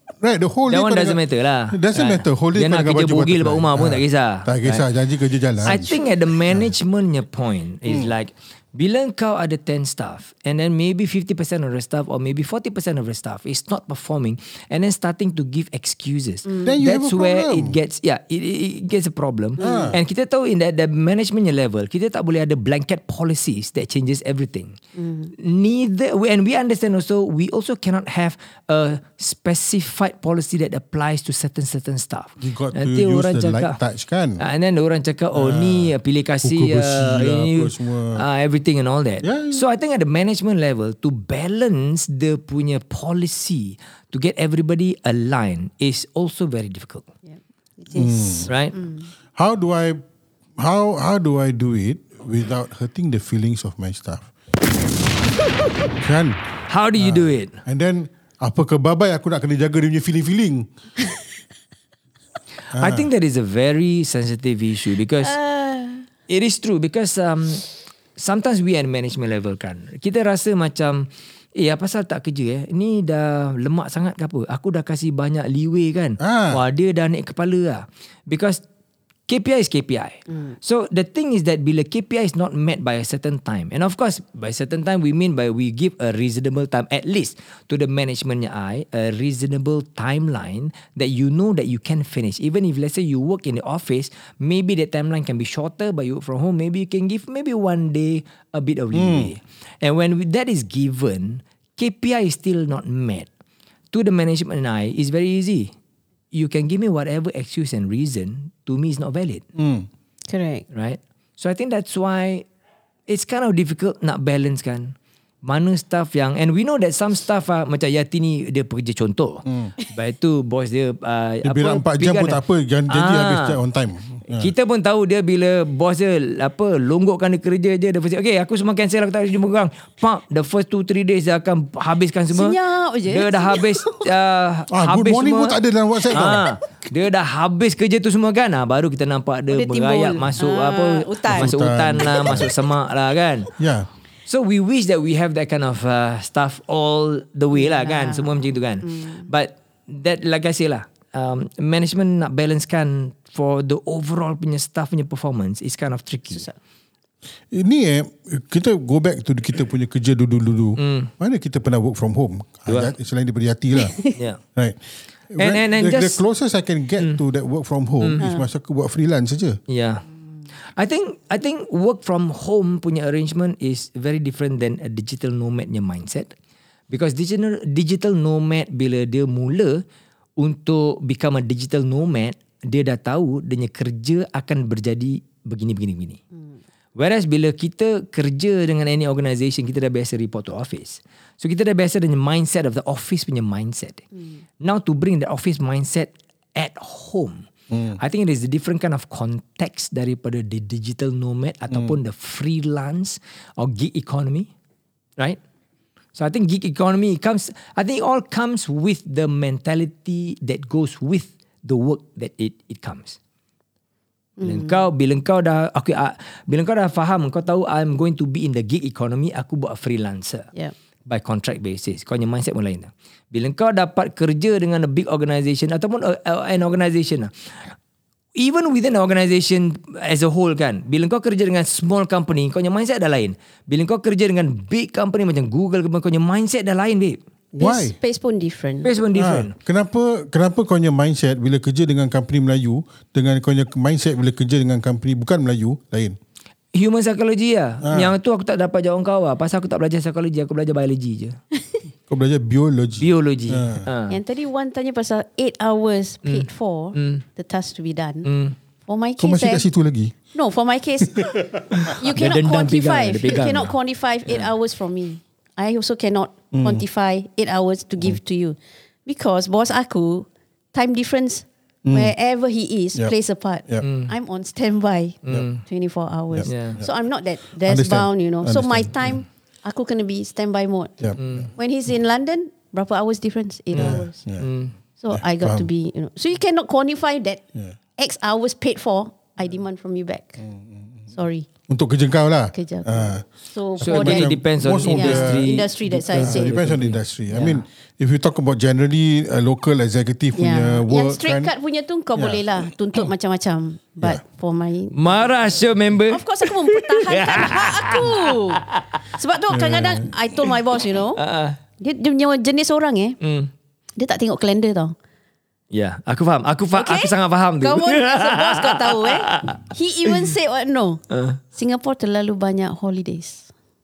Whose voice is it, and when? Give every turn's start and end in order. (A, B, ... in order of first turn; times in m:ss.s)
0:00.2-0:05.9 A
0:00.7-0:04.8 B
0:05.6-0:24.8 B
0:05.6-0:06.2 C
0:07.9-0:08.1 A
0:16.4-0:16.8 C
0:16.6-0:17.8 A
0:19.6-0:19.9 C
0:19.6-0:20.0 A
0:25.0-0:25.3 C
0:25.4-0:33.8 B
0:32.4-0:34.4 A
0:34.4-0:47.1 B
0:35.3-0:35.9 A
0:36.4-0:38.2 A
0:39.2-0:39.6 A
0:47.8-0:49.1 C
0:47.9-0:48.5 A
0:48.5-0:48.8 B
0:49.4-0:50.0 A
0:50.6-0:54.3 A
0:56.0-0:56.4 A
0:56.7-0:57.6 B
0:57.0-1:00.7 A
1:02.7-1:05.4 B
1:02.7-1:03.1 A
1:05.2-1:06.1 C
1:06.3-1:07.6 B
1:08.2-1:18.6 B
1:16.2-1:16.6 A
1:19.3-1:43.3 B
1:20.3-1:20.6 C
1:38.9-1:39.3 A
1:43.9-1:45.7 B
1:46.3-1:49.4 B
1:49.6-1:49.9 A
1:50.3-1:50.6 C
1:50.7-1:52.4 B
1:53.1-2:03.6 B
1:59.4-1:59.7 A
2:01.4-2:04.5 A
2:04.3-2:15.6 B
2:12.3-2:14.0 C
2:14.7-2:16.4 A
2:16.1-2:23.5 B
2:19.5-2:21.6 C
2:21.3-2:22.5 A
2:22.1-2:22.4 C
2:23.6-2:23.9 A
2:24.3-2:36.5 B
2:27.5-2:29.3 C
2:36.3-2:36.6 C
2:37.5-2:44.0 A
2:40.8-2:41.1 B
2:43.8-2:44.2 C
2:45.3-2:49.6 A
2:45.4-2:46.2 B
2:48.2-2:48.5 C
2:49.7-2:50.0 B
2:50.8-2:56.3 B
2:56.9-2:59.8 B
3:00.4-3:06.2 B
3:07.0-3:14.1 B
3:14.6-3:17.4 B
3:17.7-3:18.0 A
3:18.0-3:24.5 B
3:21.7-3:22.0 A
3:26.2-3:33.2 B
3:34.4-3:34.8 C
3:34.4-3:40.5 B
3:41.1-3:47.3 B
3:48.4-3:57.2 B
3:57.5-3:58.9 C
3:57.6-3:57.9 A
3:58.8-3:59.5 B
3:59.1-4:06.2 A
4:06.7-4:11.4 B
4:07.8-4:08.1 A
4:12.1-4:13.9 A
4:13.0-4:14.2 B
4:14.1-4:18.3 C
4:16.2-4:17.2 B
4:18.2-4:18.6 B
4:18.9-4:19.6 C
4:19.2-4:20.1 A
4:20.3-4:41.0 C
4:21.8-4:23.8 B
4:26.5-4:26.8 A
4:31.8-4:32.1 A
4:33.8-4:34.1 B
4:35.2-4:35.6 B
4:36.3-4:36.9 A
4:36.4-4:36.8 B
4:37.6-4:39.1 A
4:41.2-4:41.5 B
4:41.6-4:44.2 C
4:43.7-4:44.7 B
4:43.8-4:44.4 A
4:45.0-4:47.4 C
4:45.1-4:45.7 A
4:48.0-4:50.4 C
4:50.4-4:50.8 A
4:51.1-4:51.5 C
4:51.7-4:53.2 A
4:52.5-4:56.6 C
4:53.8-5:01.5 A
4:53.8-4:57.6 B
5:00.4-5:05.2 C
5:02.2-5:02.4 A
5:04.9-5:08.8 B
5:06.1-5:11.2 C
5:09.5-5:10.1 A
5:11.2-5:11.6 B
5:11.8-5:13.2 C
5:13.2-5:13.5 B
5:14.0-5:14.9 C
5:15.7-5:19.6 B
5:16.7-5:23.5 C
5:21.1-5:21.4 B